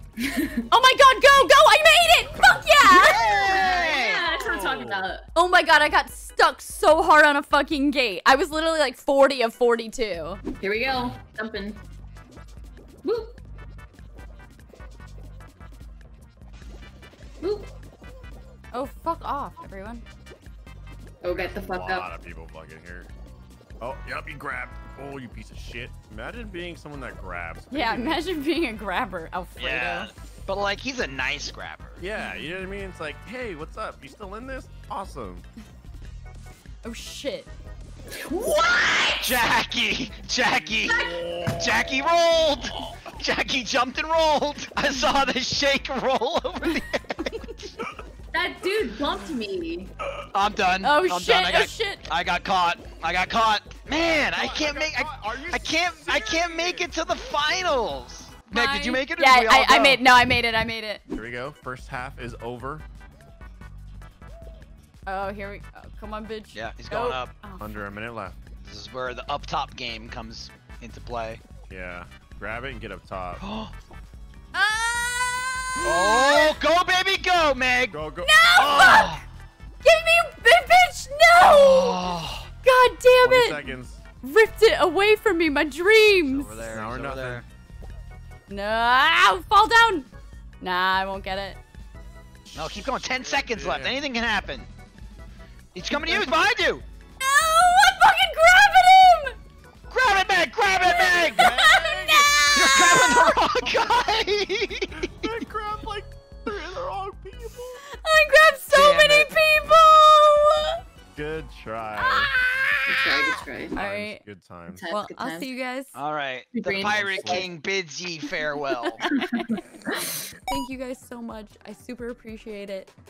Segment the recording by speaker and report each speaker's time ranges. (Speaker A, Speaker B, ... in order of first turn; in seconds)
Speaker A: 0.2-0.6, 3.0-5.3, 10.6-11.8, 13.0-13.3, 17.4-17.7, 21.2-22.1, 38.1-39.5, 48.3-49.9, 112.9-113.8, 114.7-115.5, 116.5-117.5
Speaker B: 0.7-3.6, 5.3-10.4, 18.7-20.0, 27.7-30.1, 36.8-37.5, 50.8-52.0, 58.5-61.0, 65.1-67.7, 74.5-76.6, 78.2-79.2, 79.8-82.1, 82.6-83.6, 84.2-86.7, 88.5-90.1, 90.6-91.6, 97.2-99.3, 100.9-103.3, 108.0-110.8, 112.0-112.8, 113.7-114.2, 114.9-116.0, 118.8-119.7, 120.5-122.9
Speaker C: 2.9-4.3, 29.6-32.0, 39.2-47.5, 50.3-60.0, 66.5-67.4, 68.6-71.4, 73.4-73.7, 75.8-78.0, 78.5-79.2, 81.4-82.5, 86.3-87.5, 92.5-94.7, 95.8-96.8, 99.9-101.5, 102.5-105.1, 108.7-109.3, 116.0-119.0
Speaker D: 4.0-5.1, 21.3-23.1, 23.8-28.2, 32.0-35.5, 40.6-42.0, 54.3-56.9, 61.1-62.8, 67.6-68.4, 71.7-73.4, 77.9-78.4, 83.2-84.0, 86.7-87.4, 93.2-94.0, 100.8-103.8, 105.0-107.8, 111.2-112.3, 113.7-114.8, 116.8-117.5